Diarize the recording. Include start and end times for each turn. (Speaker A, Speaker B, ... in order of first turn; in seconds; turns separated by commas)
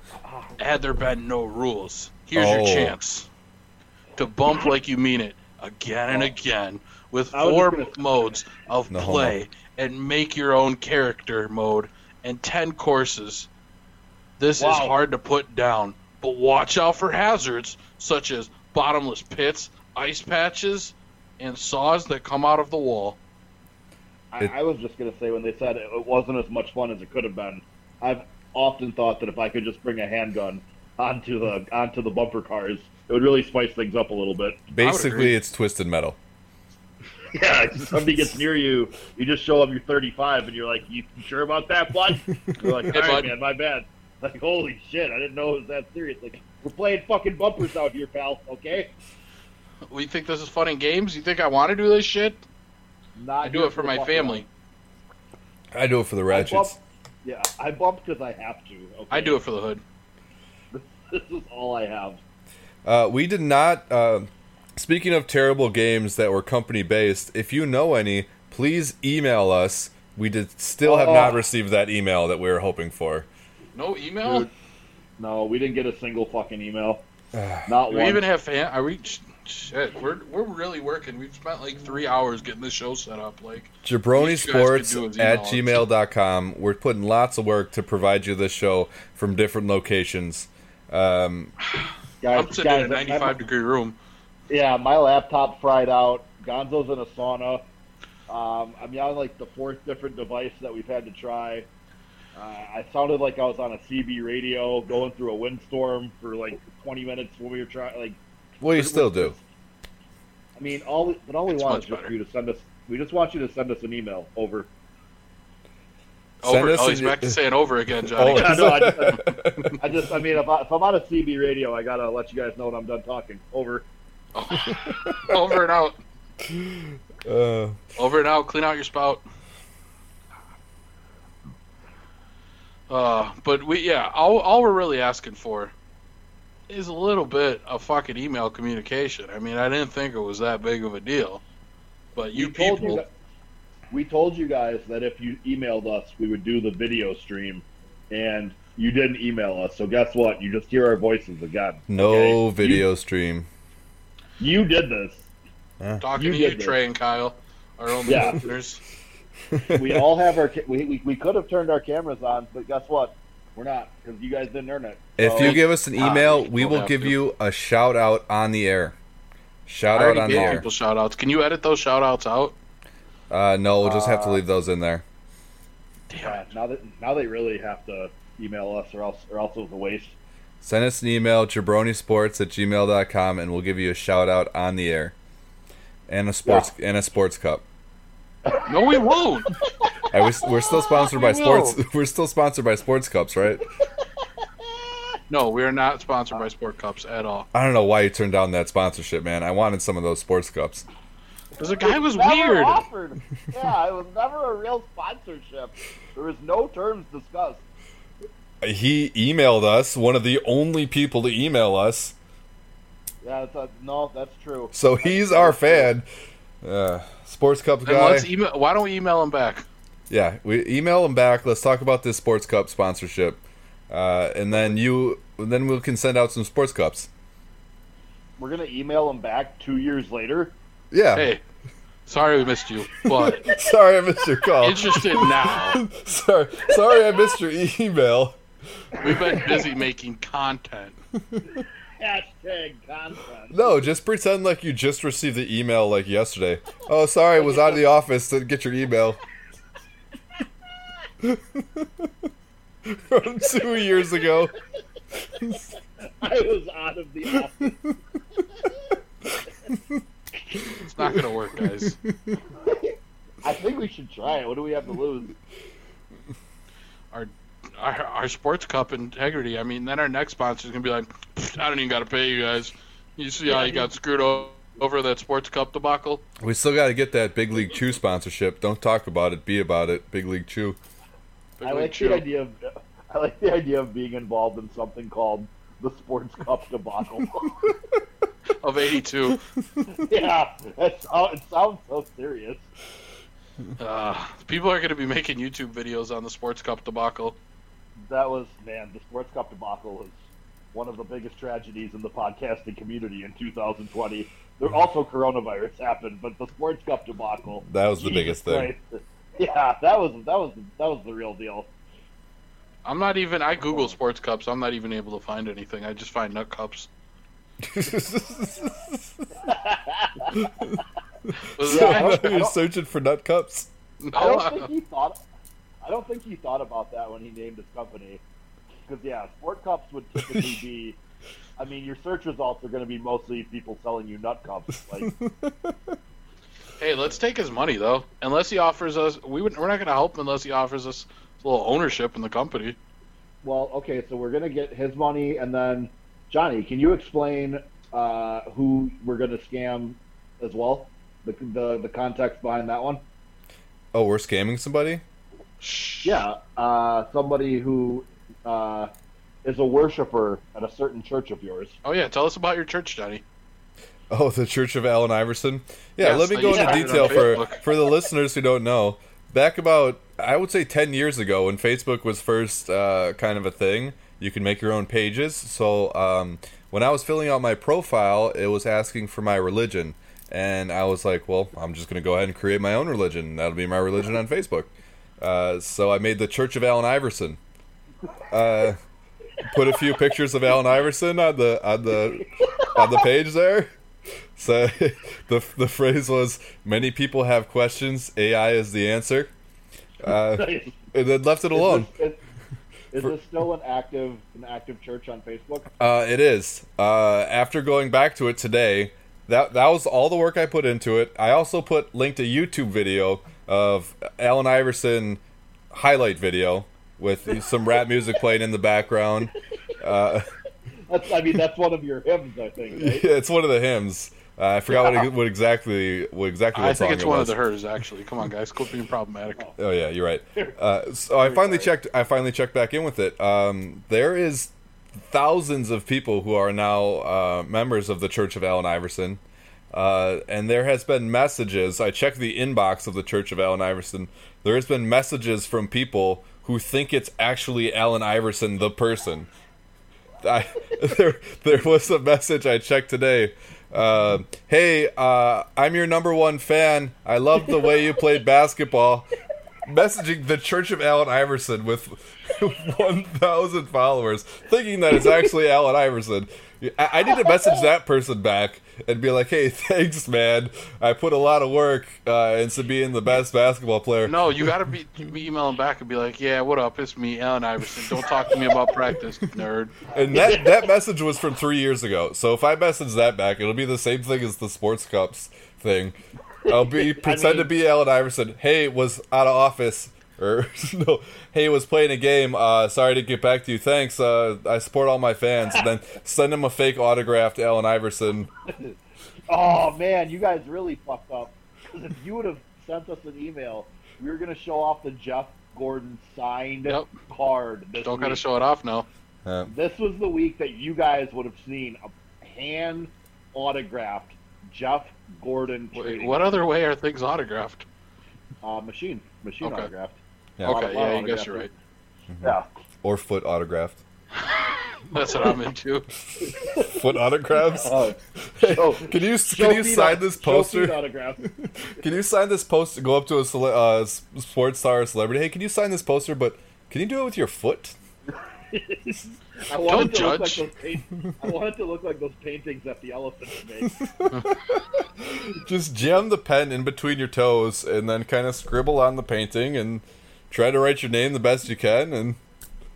Speaker A: 0.2-0.6, Speaker B: 0.6-3.3, Speaker C: 2.3-3.0, Speaker B: 4.2-13.5, Speaker A: 7.3-8.0, Speaker C: 8.9-9.3, Speaker B: 14.4-23.2, Speaker A: 14.6-14.9, Speaker A: 24.3-34.6, Speaker C: 34.7-36.2, Speaker B: 34.8-35.4, Speaker A: 37.3-48.9, Speaker C: 42.6-42.9, Speaker B: 42.9-43.3, Speaker B: 49.9-52.4, Speaker A: 53.1-54.4, Speaker B: 53.4-54.5, Speaker C: 55.7-56.8, Speaker A: 56.3-59.4, Speaker B: 59.1-59.8, Speaker A: 60.7-62.2, Speaker C: 62.8-73.3, Speaker A: 70.8-71.4, Speaker B: 73.7-74.5, Speaker A: 74.2-74.5, Speaker A: 75.2-77.0, Speaker C: 77.3-77.7, Speaker A: 77.7-78.2, Speaker B: 77.9-85.8, Speaker C: 83.8-91.5, Speaker B: 91.7-94.0, Speaker A: 92.2-93.4, Speaker A: 94.5-97.6, Speaker A: 98.3-101.7, Speaker A: 102.3-109.4, Speaker C: 108.6-109.3, Speaker A: 110.5-114.7, Speaker B: 111.5-112.1, Speaker B: 116.4-119.8, Speaker C: 116.4-117.4, Speaker C: 118.2-119.8, Speaker A: 118.2-119.3, Speaker A: 119.8-123.9, Speaker B: 124.3-126.0, Speaker C: 124.6-125.4, Speaker C: 126.4-127.8, Speaker B: 128.0-129.2, Speaker B: 132.9-135.7, Speaker B: 136.7-141.4, Speaker B: 142.2-143.0, Speaker A: 142.3-143.1, Speaker A: 143.9-152.8, Speaker C: 151.9-153.5, Speaker A: 154.4-155.3, Speaker B: 156.0-158.8, Speaker A: 156.2-156.8, Speaker A: 158.1-158.4, Speaker C: 159.5-160.1, Speaker A: 159.7-165.6, Speaker C: 165.2-168.9, Speaker B: 165.4-167.2, Speaker C: 169.7-170.6, Speaker B: 169.9-172.6, Speaker A: 170.3-170.6, Speaker C: 173.3-175.0, Speaker A: 173.8-174.4, Speaker B: 176.1-176.5, Speaker A: 176.2-180.2, Speaker C: 180.6-185.1, Speaker C: 186.1-187.6, Speaker A: 186.4-186.7, Speaker A: 188.4-189.0, Speaker B: 188.7-189.5, Speaker A: 189.8-190.8, Speaker C: 190.1-193.6, Speaker B: 190.9-191.8, Speaker A: 194.0-195.2, Speaker B: 195.3-197.5, Speaker C: 197.5-200.8, Speaker B: 201.6-202.8, Speaker A: 201.8-207.6, Speaker C: 208.6-212.1, Speaker A: 213.2-215.9, Speaker C: 214.7-216.1, Speaker C: 216.6-218.3, Speaker B: 217.8-219.7, Speaker C: 220.1-227.1, Speaker A: 228.4-230.6, Speaker C: 230.9-231.3, Speaker B: 231.1-231.4, Speaker B: 232.1-233.5, Speaker C: 233.1-238.4, Speaker B: 234.6-235.8, Speaker A: 236.7-237.0, Speaker A: 238.9-239.7, Speaker B: 239.0-241.0, Speaker C: 241.3-241.6, Speaker A: 242.0-243.8, Speaker C: 243.5-249.2, Speaker A: 247.4-247.8, Speaker C: 251.2-252.1, Speaker C: 252.8-254.5, Speaker C: 255.3-255.7, Speaker A: 256.2-257.9, Speaker C: 259.3-260.0, Speaker C: 260.6-262.4, Speaker B: 260.8-262.0, Speaker A: 262.6-262.9, Speaker A: 263.4-265.3, Speaker B: 267.1-276.2, Speaker A: 273.5-273.9, Speaker C: 276.4-280.8, Speaker B: 281.6-282.2, Speaker A: 281.6-287.7, Speaker B: 288.6-289.4, Speaker C: 289.7-290.0, Speaker A: 290.0-292.7, Speaker B: 293.8-297.4, Speaker A: 298.1-300.2, Speaker A: 300.7-311.7, Speaker C: 307.6-308.7, Speaker B: 312.8-316.9, Speaker C: 317.6-319.3, Speaker A: 319.4-320.5, Speaker C: 320.3-323.7, Speaker B: 321.5-322.2, Speaker A: 321.6-322.6, Speaker B: 324.0-324.7, Speaker A: 324.1-325.2, Speaker A: 325.8-328.2, Speaker A: 328.9-331.0, Speaker C: 330.2-330.6, Speaker A: 331.6-335.1, Speaker C: 335.0-335.9, Speaker B: 336.8-342.8, Speaker A: 343.4-353.0, Speaker C: 353.9-355.0, Speaker B: 355.6-356.2, Speaker A: 356.0-358.9, Speaker A: 359.4-361.8, Speaker B: 361.8-363.2, Speaker C: 364.1-387.4, Speaker B: 366.0-367.6, Speaker A: 366.4-367.6, Speaker C: 388.3-388.8, Speaker C: 389.4-393.7, Speaker A: 392.4-393.0, Speaker C: 394.4-399.3, Speaker C: 400.0-401.9, Speaker A: 400.1-400.8, Speaker A: 401.5-402.2, Speaker A: 402.9-405.7, Speaker C: 405.8-420.3, Speaker A: 420.9-423.0, Speaker C: 422.7-427.4, Speaker A: 424.7-425.1, Speaker B: 426.5-429.5, Speaker C: 429.6-439.2, Speaker A: 431.2-431.7, Speaker C: 439.7-449.3, Speaker C: 450.2-459.1, Speaker C: 459.6-474.5, Speaker B: 474.0-479.8, Speaker C: 479.9-498.3, Speaker A: 480.1-480.7, Speaker A: 486.4-487.5, Speaker A: 498.5-498.7, Speaker A: 499.3-508.2, Speaker B: 506.6-506.9, Speaker B: 507.8-508.9, Speaker C: 509.2-509.5, Speaker A: 509.5-516.4, Speaker B: 515.7-517.6, Speaker A: 518.4-521.5, Speaker B: 519.4-519.7, Speaker B: 520.4-521.5, Speaker C: 522.1-523.8, Speaker A: 522.2-522.5, Speaker B: 524.2-525.9, Speaker C: 526.2-530.8, Speaker A: 526.2-526.9, Speaker A: 527.4-531.9, Speaker C: 531.4-537.8, Speaker A: 538.5-543.8, Speaker B: 539.6-540.5, Speaker C: 543.8-552.2